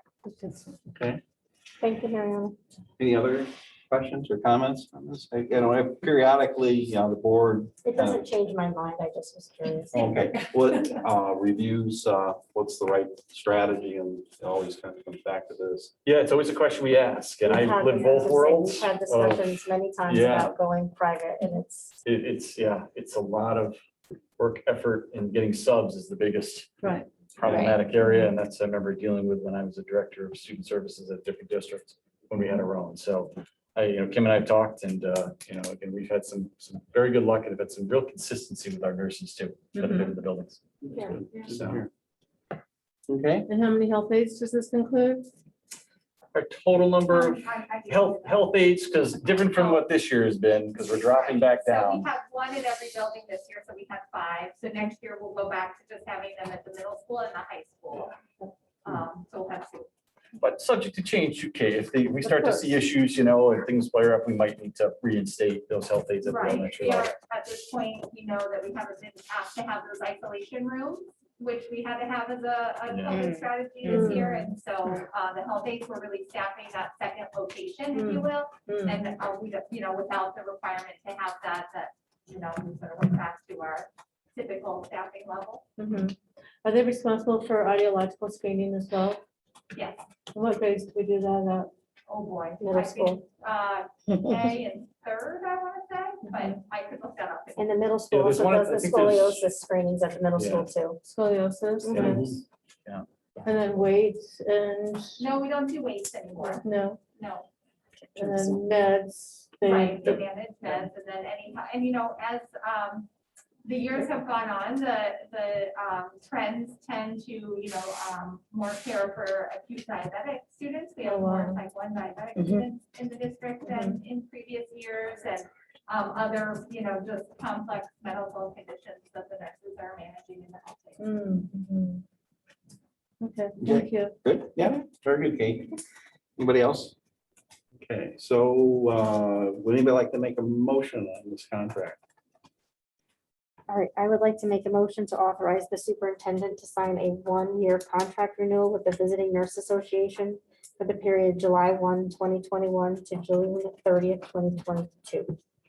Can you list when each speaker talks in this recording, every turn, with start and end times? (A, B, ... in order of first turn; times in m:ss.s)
0:00.3-0:00.6 A
0:00.9-0:01.2 B
0:01.8-0:02.6 C
0:03.0-0:08.3 B
0:07.8-0:10.3 C
0:09.9-0:15.9 B
0:16.0-0:19.5 D
0:17.4-0:22.0 C
0:20.1-0:20.6 D
0:22.0-0:23.8 D
0:24.4-0:40.6 D
0:27.4-0:27.8 E
0:39.8-0:40.1 A
0:40.8-0:41.9 B
0:41.3-0:41.6 A
0:43.1-0:43.5 B
0:43.5-0:45.3 A
0:46.3-0:52.1 D
0:47.1-0:49.8 E
0:51.0-0:58.2 E
0:58.8-0:59.9 E
1:00.4-1:07.1 D
1:02.2-1:02.8 A
1:06.2-1:25.6 E
1:12.9-1:13.2 D
1:13.1-1:14.5 A
1:17.9-1:19.0 A
1:25.8-1:29.2 A
1:29.7-1:30.0 E
1:30.3-1:31.7 A
1:32.1-1:37.7 E
1:32.6-1:33.2 C
1:37.6-1:41.0 C
1:38.1-1:39.4 D
1:40.4-1:40.7 D
1:41.0-1:42.4 A
1:41.9-1:42.4 B
1:43.4-1:45.2 A
1:45.2-1:46.6 E
1:46.6-1:47.0 A
1:47.2-1:47.5 E
1:48.2-1:50.2 A
1:48.2-1:48.6 C
1:49.6-1:53.1 E
1:53.6-2:11.0 E
2:01.0-2:01.6 A
2:02.4-2:02.6 A
2:03.6-2:04.0 A
2:11.0-2:12.0 A
2:13.2-2:14.2 A
2:13.6-2:15.8 B
2:16.4-2:17.0 B
2:17.8-2:22.0 B
2:23.7-2:35.3 C